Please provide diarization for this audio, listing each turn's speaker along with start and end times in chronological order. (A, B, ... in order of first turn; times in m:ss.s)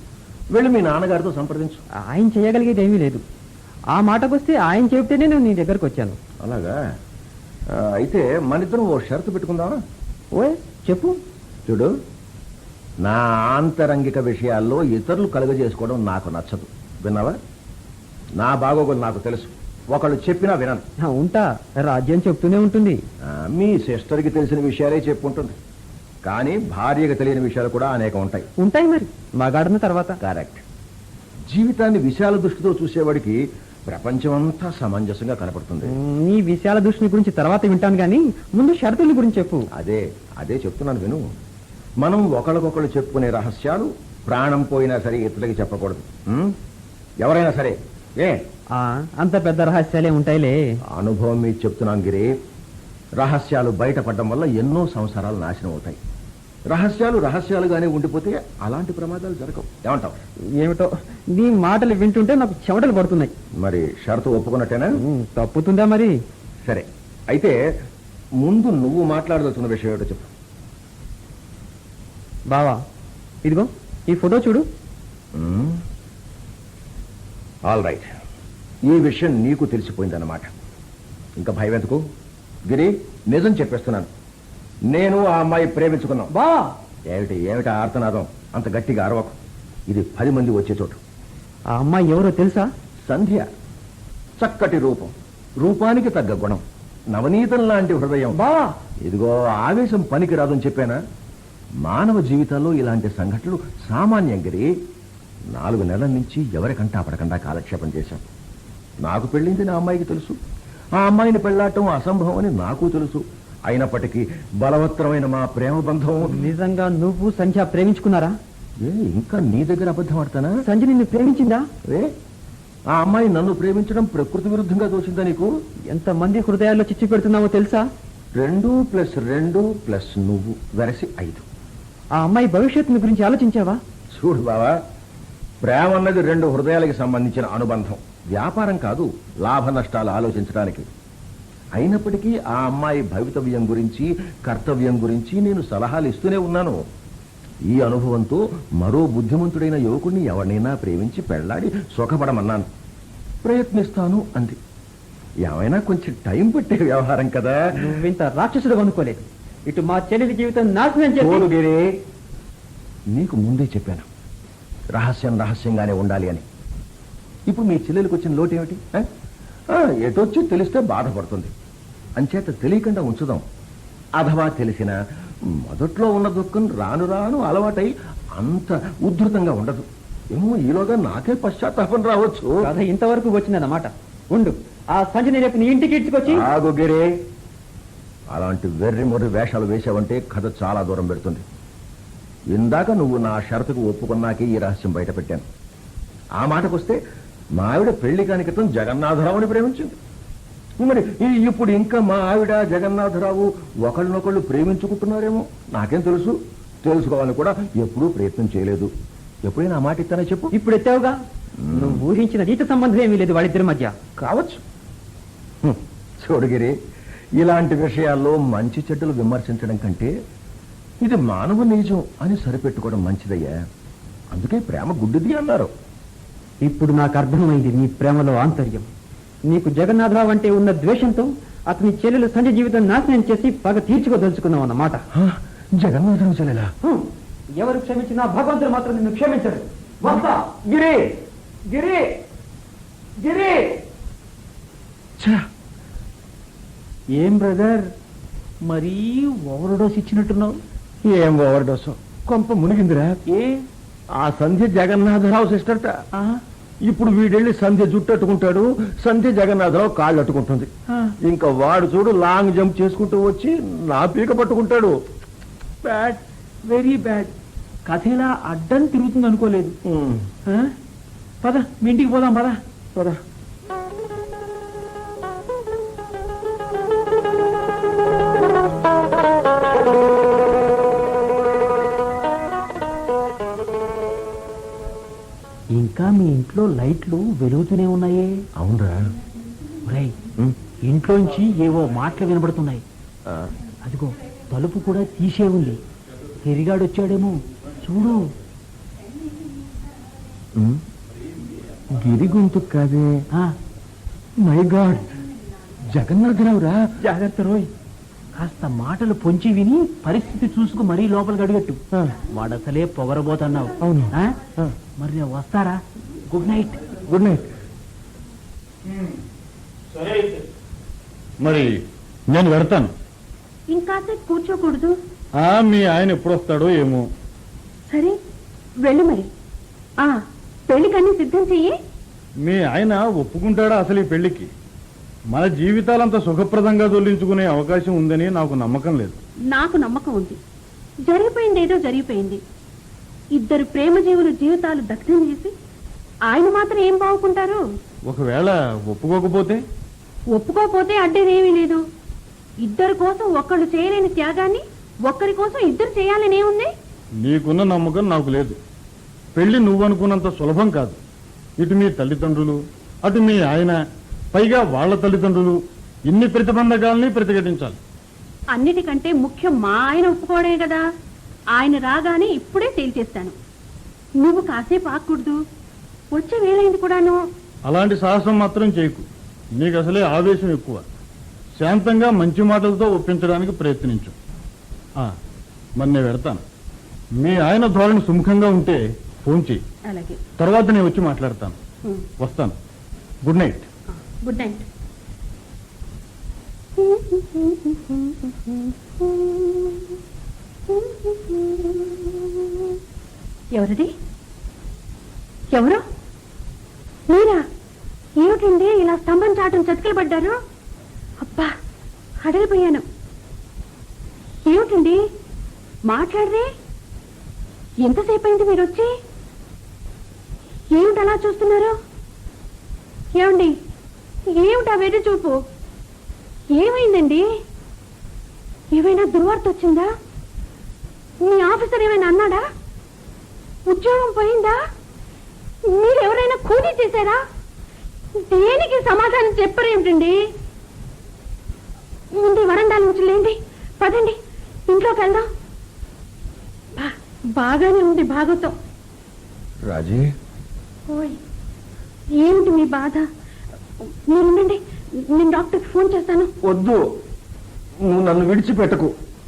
0:00.5-0:01.8 A
0:02.0-0:03.2 B
0:03.9-0:06.2 B
0:06.4-0:06.8 A
0:07.7-0:09.8 A
0:10.3-0:11.2 B
0:11.6-0:11.9 A
0:13.0-0:17.4 A
0:18.4-0:20.8 A
0:21.0-0:23.0 B
0:23.2-0:25.6 A
0:26.2-0:28.5 A
0:28.6-0:30.2 B
0:30.2-0:30.6 A
0:31.5-0:35.9 A
0:35.8-0:39.7 B
0:39.7-0:41.2 A
0:42.0-0:46.6 A
0:47.2-0:48.4 A
0:48.7-0:50.8 B
0:50.9-0:52.3 A
0:53.2-0:56.0 A
0:56.7-1:00.2 A
1:00.6-1:03.3 B
1:03.6-1:04.9 A
1:05.0-1:06.2 B
1:06.6-1:07.6 A
1:08.4-1:10.3 A
1:12.5-1:12.8 B
1:13.4-1:14.6 B
1:15.3-1:15.8 A
1:17.6-1:18.1 A
1:18.9-1:20.5 A
1:21.4-1:22.0 A
1:22.7-1:24.1 A
1:24.9-1:26.3 A
1:26.3-1:26.7 B
1:27.1-1:29.4 A
1:29.9-1:31.0 A
1:31.7-1:32.7 B
1:33.0-1:33.5 A
1:34.4-1:38.4 A
1:38.3-1:38.7 B
1:39.0-1:41.0 A
1:41.8-1:44.7 A
1:45.5-1:48.2 A
1:49.0-1:50.4 A
1:51.0-1:56.5 A
1:56.2-1:58.4 B
1:58.8-2:00.6 A
2:00.6-2:01.6 B
2:01.8-2:02.1 A
2:02.9-2:05.5 A
2:05.9-2:07.9 B
2:08.4-2:11.4 A
2:12.2-2:13.8 B
2:14.1-2:14.7 A
2:15.6-2:20.9 A
2:21.8-2:26.8 A
2:27.7-2:32.7 A
2:33.4-2:34.6 A
2:35.4-2:37.9 A
2:37.7-2:41.4 B
2:41.2-2:41.9 A
2:43.1-2:44.1 A
2:44.9-2:46.4 A
2:47.5-2:49.1 A
2:49.7-2:51.5 A
2:52.2-2:53.4 A
2:54.2-3:02.6 A
3:02.6-3:06.4 B
3:06.3-3:07.1 A
3:08.3-3:11.4 A
3:12.5-3:15.4 A
3:16.4-3:17.0 A
3:17.6-3:20.0 A
3:20.8-3:28.9 A
3:29.4-3:30.5 A
3:30.5-3:31.2 B
3:31.6-3:32.0 A
3:31.7-3:33.9 B
3:34.2-3:34.6 A
3:35.6-3:36.8 A
3:37.4-3:40.1 A
3:41.0-3:43.5 A
3:44.3-3:45.7 A
3:46.6-3:48.8 B
3:49.5-3:55.0 B
3:55.1-3:56.7 A
3:56.8-4:01.1 B
4:01.7-4:02.1 B
4:03.2-4:03.7 B
4:05.2-4:05.4 A
4:07.1-4:07.8 C
4:08.6-4:10.6 C
4:11.0-4:13.2 A
4:13.3-4:13.5 C
4:14.2-4:16.0 A
4:16.9-4:20.7 A
4:21.2-4:24.9 A
4:25.8-4:27.3 C
4:27.9-4:29.8 C
4:29.8-4:30.3 A
4:30.5-4:30.7 C
4:31.4-4:32.6 C
4:45.7-4:48.4 C
4:48.6-4:49.0 A
4:49.8-4:50.2 C
4:50.8-4:52.8 C
4:53.2-4:53.5 A
4:53.8-4:55.8 C
4:56.4-4:58.3 C
5:00.5-5:00.8 A
5:01.9-5:03.1 A
5:04.4-5:05.2 A
5:05.8-5:06.8 A
5:07.1-5:07.6 C
5:08.4-5:14.4 C
5:11.9-5:12.2 A
5:13.8-5:14.7 A
5:15.0-5:16.8 C
5:17.0-5:17.4 A
5:18.8-5:19.2 D
5:19.9-5:20.4 D
5:21.4-5:22.9 D
5:23.7-5:25.0 E
5:25.4-5:27.1 D
5:27.9-5:28.2 E
5:28.8-5:29.3 E
5:30.0-5:31.7 E
5:32.4-5:34.5 D
5:35.3-5:39.2 D
5:39.5-5:40.4 E
5:41.0-5:42.4 E
5:43.3-5:45.5 E
5:46.3-5:47.6 E
5:48.1-5:49.6 D
5:50.3-5:51.8 E
5:52.6-5:56.7 E
5:57.2-5:58.6 D
5:59.4-6:01.0 D
6:01.6-6:03.8 D
6:04.3-6:07.8 D
6:08.5-6:10.8 E
6:11.6-6:13.3 E
6:14.2-6:15.4 E
6:16.1-6:17.2 E
6:17.7-6:19.0 D
6:19.6-6:20.8 D
6:21.6-6:24.1 D
6:25.8-6:26.4 D
6:27.2-6:29.6 D
6:29.8-6:30.2 E
6:30.4-6:31.6 D
6:32.2-6:32.5 D
6:33.2-6:33.7 D
6:33.9-6:34.6 E
6:36.8-6:40.0 E
6:40.7-6:42.8 E
6:43.5-6:43.9 E
6:45.5-6:45.8 E
6:47.1-6:47.4 E
6:48.2-6:50.4 E
6:51.2-6:51.5 E
6:52.2-6:52.8 E
6:54.4-6:55.0 E
6:55.9-6:56.5 E
6:57.8-6:58.9 E
7:00.7-7:01.8 E
7:03.2-7:03.5 E
7:04.3-7:05.4 E
7:06.5-7:07.2 E
7:08.7-7:09.9 E
7:11.2-7:12.4 E
7:13.7-7:14.6 E
7:15.7-7:17.2 E
7:18.2-7:20.2 E
7:22.1-7:24.2 E
7:24.7-7:25.3 E
7:26.8-7:28.5 E
7:29.6-7:30.1 A
7:30.9-7:31.2 E
7:32.2-7:33.0 E
7:34.1-7:36.3 E
7:36.4-7:36.8 A
7:37.8-7:38.9 A